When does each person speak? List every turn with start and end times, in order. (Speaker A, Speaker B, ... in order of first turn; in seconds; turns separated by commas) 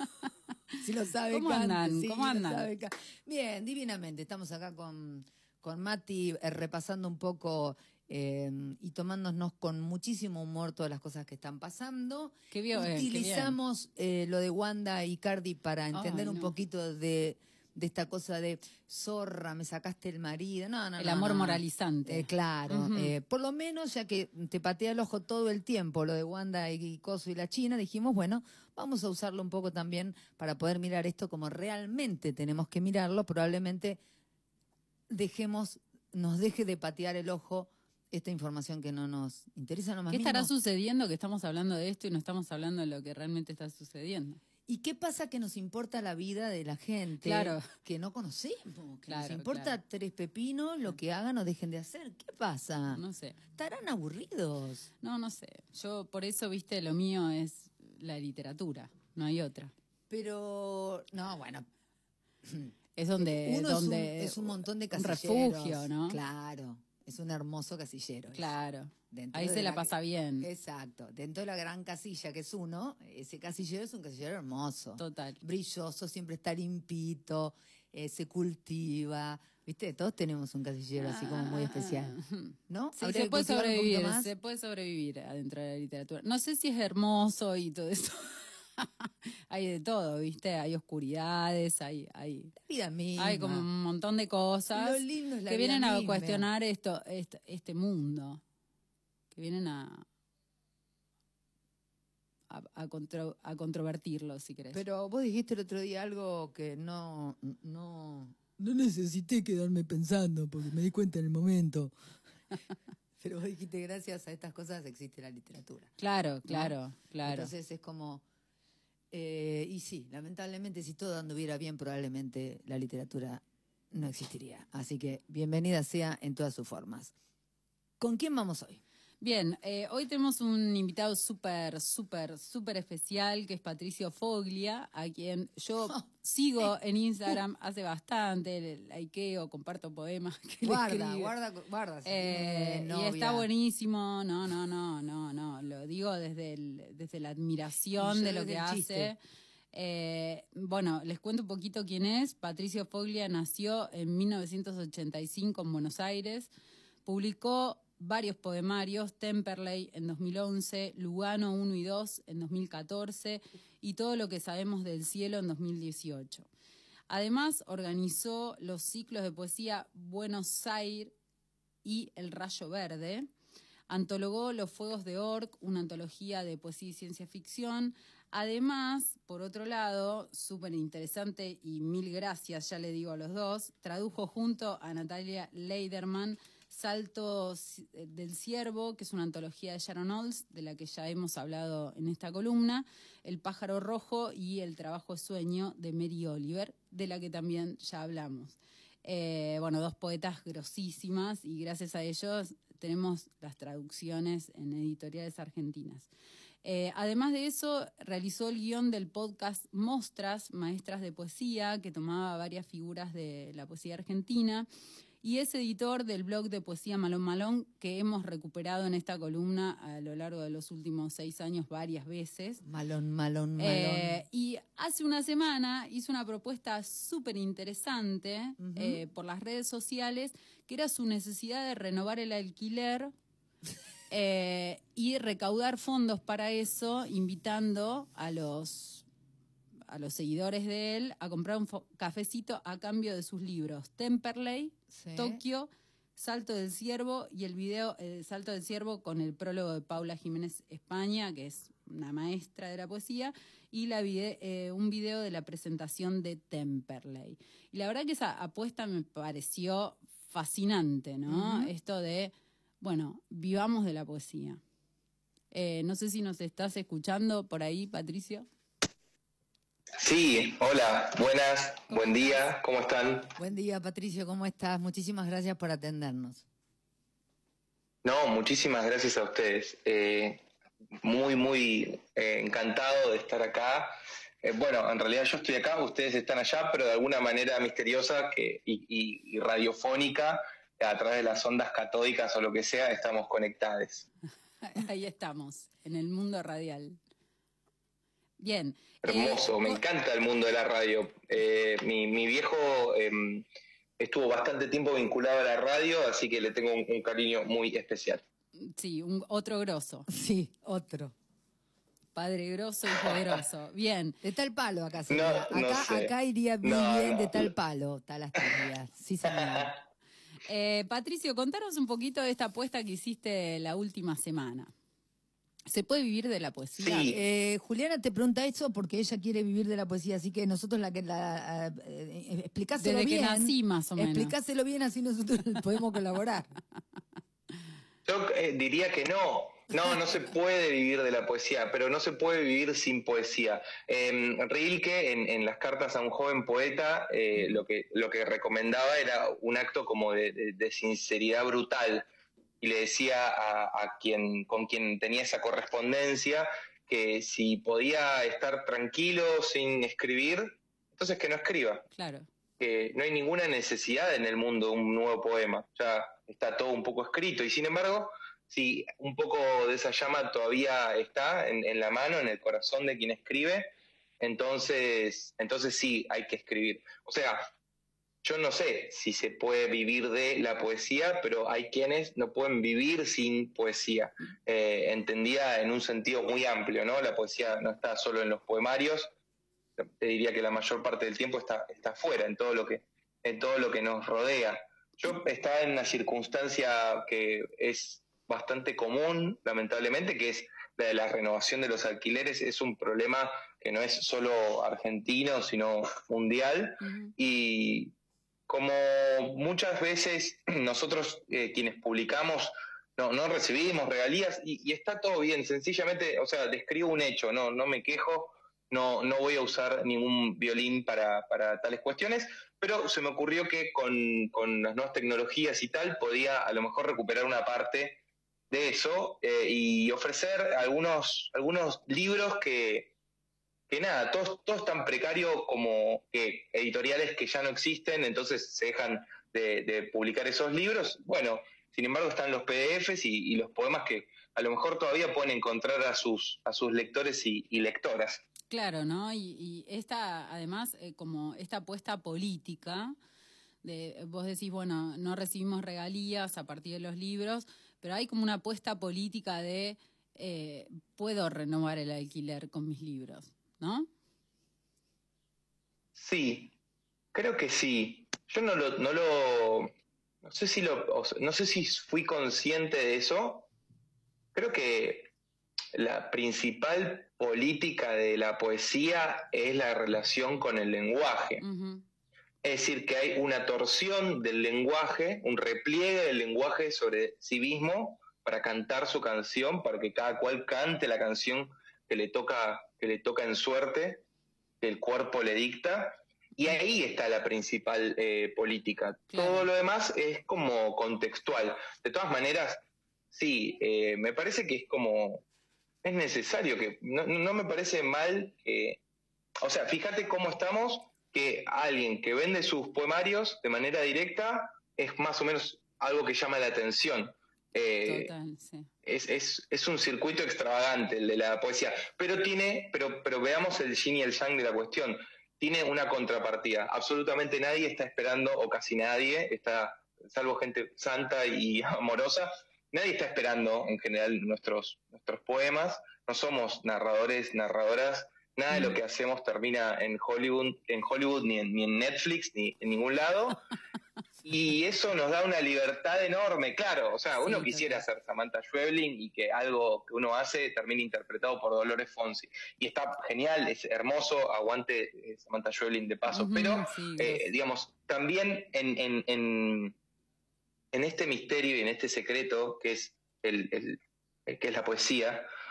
Speaker A: 0.8-34.0, Speaker B: 1.3-2.7, Speaker B: 12.5-13.5, Speaker B: 15.9-16.5, Speaker B: 21.0-23.1, Speaker A: 35.1-40.5, Speaker B: 40.1-44.4, Speaker A: 44.6-53.0, Speaker B: 47.2-47.6, Speaker B: 49.1-49.8, Speaker B: 52.9-53.4, Speaker A: 53.5-54.9, Speaker B: 55.0-59.7, Speaker A: 60.1-61.7, Speaker A: 62.4-68.5, Speaker B: 63.0-66.2, Speaker B: 68.3-70.5, Speaker A: 69.1-82.2, Speaker B: 75.0-75.4, Speaker B: 81.0-92.5, Speaker A: 82.7-84.3, Speaker A: 92.6-93.7, Speaker B: 93.2-98.4, Speaker A: 94.7-96.5, Speaker B: 99.3-100.0, Speaker B: 102.5-104.8, Speaker A: 104.7-112.0, Speaker A: 113.2-115.9, Speaker B: 116.0-117.5, Speaker A: 116.5-118.2, Speaker A: 119.1-127.1, Speaker A: 128.0-128.8, Speaker B: 129.2-141.3, Speaker A: 140.6-143.5, Speaker B: 142.0-149.2, Speaker A: 148.0-149.1, Speaker B: 149.7-156.5, Speaker B: 157.1-166.5, Speaker B: 167.1-171.1, Speaker B: 171.8-173.3, Speaker B: 173.9-206.1, Speaker B: 206.6-214.7, Speaker B: 215.2-222.6, Speaker A: 222.6-224.2, Speaker B: 223.6-233.1, Speaker A: 228.6-229.0, Speaker B: 234.1-239.1, Speaker B: 239.9-264.6, Speaker A: 244.9-245.4, Speaker A: 261.3-261.7, Speaker B: 265.5-268.4, Speaker C: 270.0-273.4, Speaker B: 271.9-272.4, Speaker A: 273.4-276.4, Speaker C: 278.0-280.4, Speaker C: 281.0-294.1, Speaker B: 294.6-297.0, Speaker B: 298.4-299.8, Speaker C: 299.0-303.4, Speaker C: 304.0-308.2, Speaker B: 308.6-310.1, Speaker A: 310.1-311.1, Speaker B: 312.1-314.2, Speaker C: 313.0-313.3, Speaker A: 314.2-319.7, Speaker C: 315.1-317.5, Speaker C: 319.3-319.8, Speaker B: 320.4-324.7, Speaker B: 325.7-327.1, Speaker C: 326.8-327.2, Speaker A: 327.1-336.5, Speaker B: 332.8-334.3, Speaker C: 338.1-352.1, Speaker C: 352.6-361.9, Speaker B: 361.9-362.3, Speaker C: 362.6-377.5, Speaker C: 378.2-389.1, Speaker C: 389.8-407.9, Speaker B: 406.8-407.1, Speaker C: 408.5-432.9, Speaker C: 433.7-448.2, Speaker B: 448.5-452.9, Speaker B: 453.6-463.9, Speaker C: 465.9-466.5, Speaker C: 467.1-469.7, Speaker C: 470.2-473.5, Speaker C: 474.3-475.1, Speaker C: 475.7-481.4, Speaker B: 481.4-481.8, Speaker C: 482.4-494.0, Speaker C: 494.6-505.2, Speaker B: 499.1-499.5, Speaker C: 505.8-508.8, Speaker C: 509.4-518.1, Speaker B: 517.8-518.7, Speaker C: 518.9-543.4, Speaker C: 544.2-559.8, Speaker B: 547.2-547.8, Speaker B: 556.1-557.3, Speaker C: 560.7-565.3